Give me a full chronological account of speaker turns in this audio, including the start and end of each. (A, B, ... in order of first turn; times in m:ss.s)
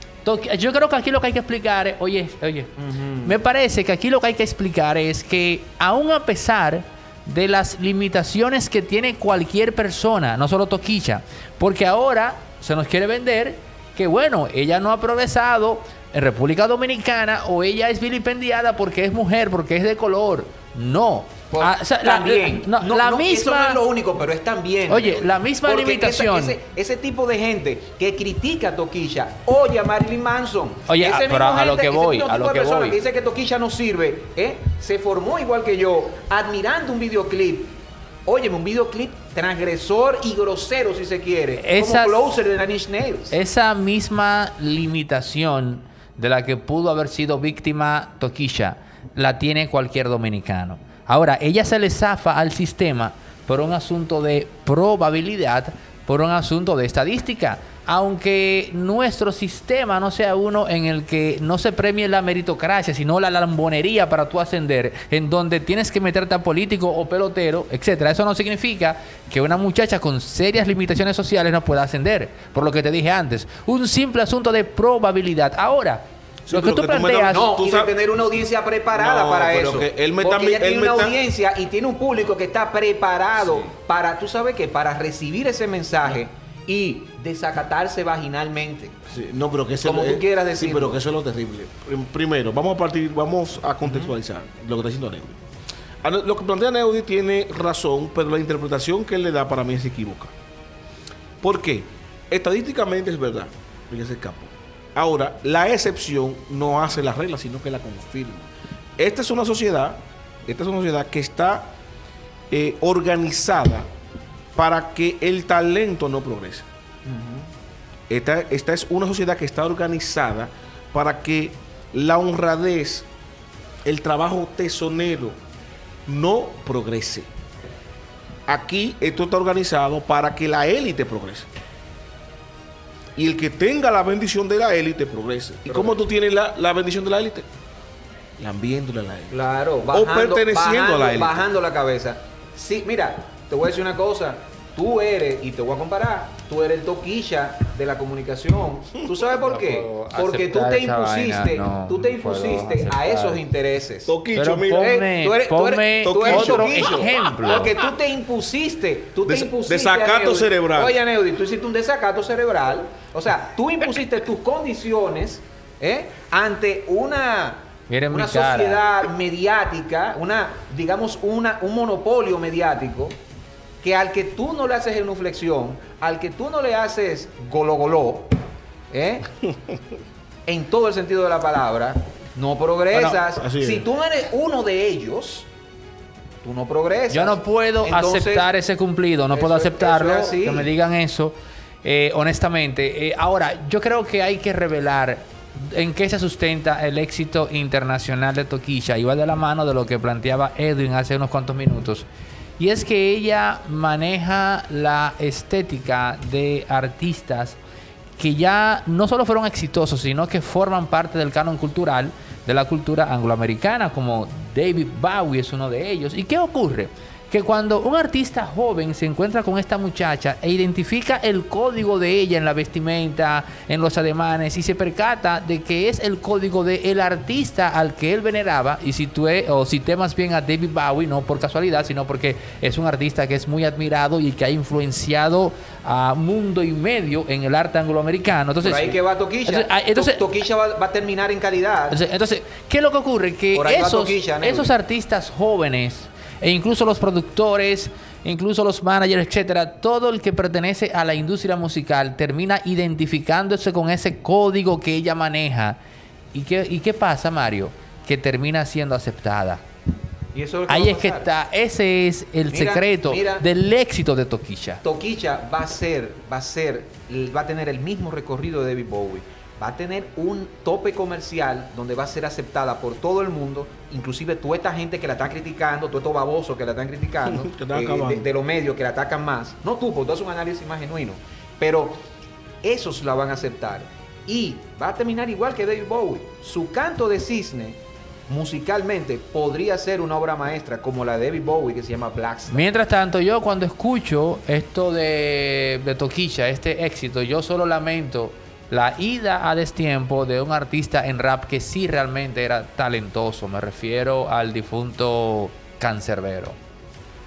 0:00.2-0:02.7 A
0:02.8-0:03.4 B
0:03.2-0:23.8 A
0:21.5-0:37.7 B
0:24.9-0:26.6 A
0:30.9-0:33.0 A
0:38.2-0:43.3 B
0:41.6-0:42.3 A
0:43.3-1:17.5 A
1:16.4-1:17.9 C
1:17.3-1:29.0 B
1:18.9-1:21.2 C
1:29.1-1:35.4 C
1:29.8-1:31.0 B
1:33.8-1:34.1 B
1:36.0-1:40.3 C
1:41.4-1:51.7 C
1:52.5-1:53.9 C
1:54.5-1:56.7 C
1:57.0-1:57.5 B
1:58.1-2:03.1 C
2:03.8-2:05.4 C
2:06.0-2:07.3 C
2:08.5-2:11.5 C
2:13.2-2:17.5 C
2:15.7-2:16.0 B
2:18.4-2:19.4 C
2:19.3-2:34.1 B
2:19.9-2:21.4 C
2:29.3-2:33.4 A
2:34.1-2:34.9 C
2:34.3-2:37.7 A
2:34.8-2:53.1 B
2:36.0-2:37.6 C
2:39.2-2:41.0 C
2:47.9-2:48.8 A
2:53.8-2:58.3 B
2:58.9-2:59.3 B
3:00.5-3:05.5 B
3:02.9-3:03.2 A
3:03.2-3:03.8 C
3:06.4-3:08.5 B
3:07.1-3:22.1 A
3:09.3-3:10.7 B
3:22.6-3:27.6 A
3:28.2-4:00.2 A
3:58.6-4:02.0 B
4:01.9-4:15.8 A
4:03.5-4:04.7 B
4:16.3-4:19.6 A
4:20.3-4:21.3 B
4:20.7-4:24.8 A
4:22.5-4:23.4 B
4:24.8-4:42.0 B
4:37.2-4:38.2 C
4:42.6-4:52.7 B
4:52.5-5:06.6 A